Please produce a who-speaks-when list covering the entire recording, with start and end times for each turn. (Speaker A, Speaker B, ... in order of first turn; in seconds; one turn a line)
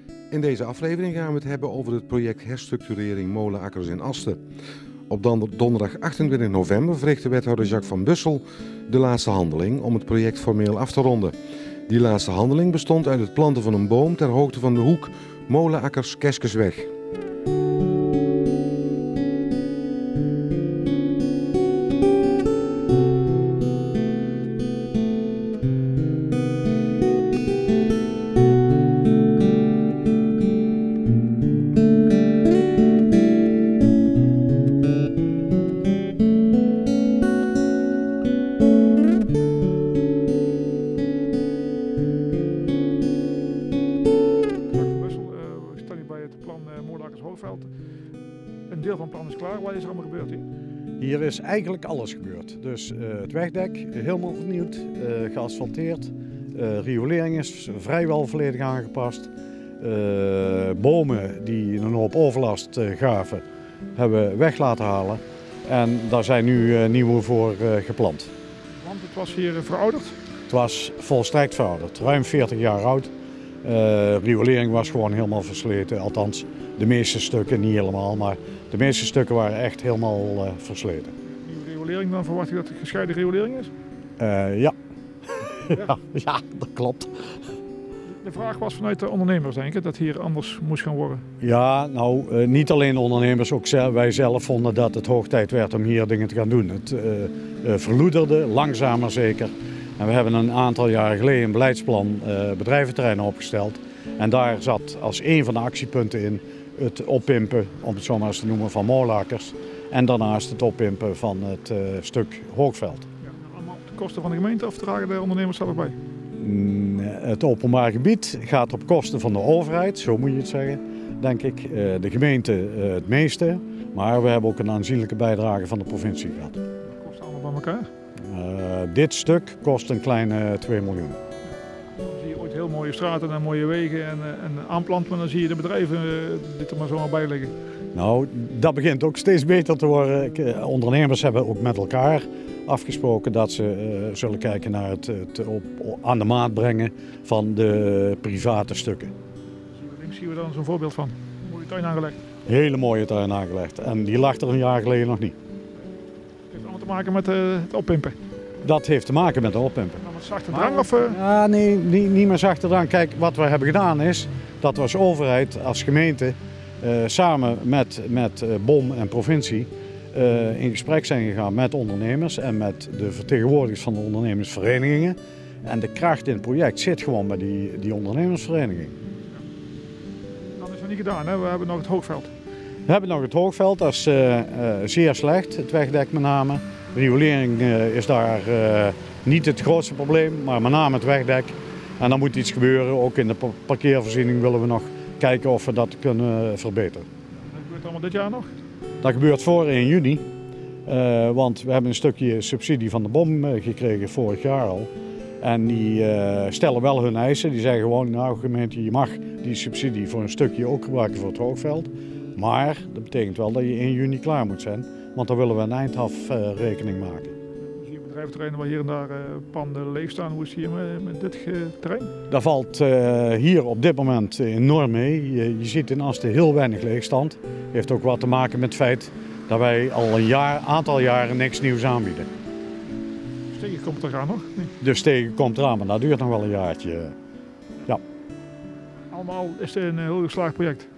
Speaker A: 0.3-4.4
Speaker A: 5.1-11.3
Speaker A: 11.9-16.9
Speaker B: 44.7-47.7
Speaker B: 48.7-50.5
Speaker C: 51.0-63.4
Speaker C: 63.9-68.3
Speaker B: 68.8-70.1
Speaker C: 70.5-73.1
Speaker C: 73.6-81.1
Speaker B: 81.3-83.7
Speaker C: 84.2-84.7
Speaker C: 85.4-87.4
Speaker B: 88.1-91.2
Speaker C: 91.4-113.0
Speaker B: 113.2-116.0
Speaker C: 116.4-126.6
Speaker B: 126.8-127.9
Speaker C: 128.2-131.2
Speaker B: 132.0-137.5
Speaker C: 137.9-149.1
Speaker B: 149.7-152.2
Speaker C: 152.4-155.3
Speaker B: 156.5-158.2
Speaker C: 158.6-178.9
Speaker B: 160.0-161.2
Speaker B: 180.6-182.3
Speaker C: 182.8-197.1
Speaker B: 197.4-198.5
Speaker C: 199.0-200.2
Speaker C: 200.8-204.9
Speaker C: 205.4-217.3
Speaker B: 217.8-222.1
Speaker C: 222.3-232.3
Speaker B: 233.5-234.7
Speaker C: 234.8-237.1
Speaker B: 239.1-240.8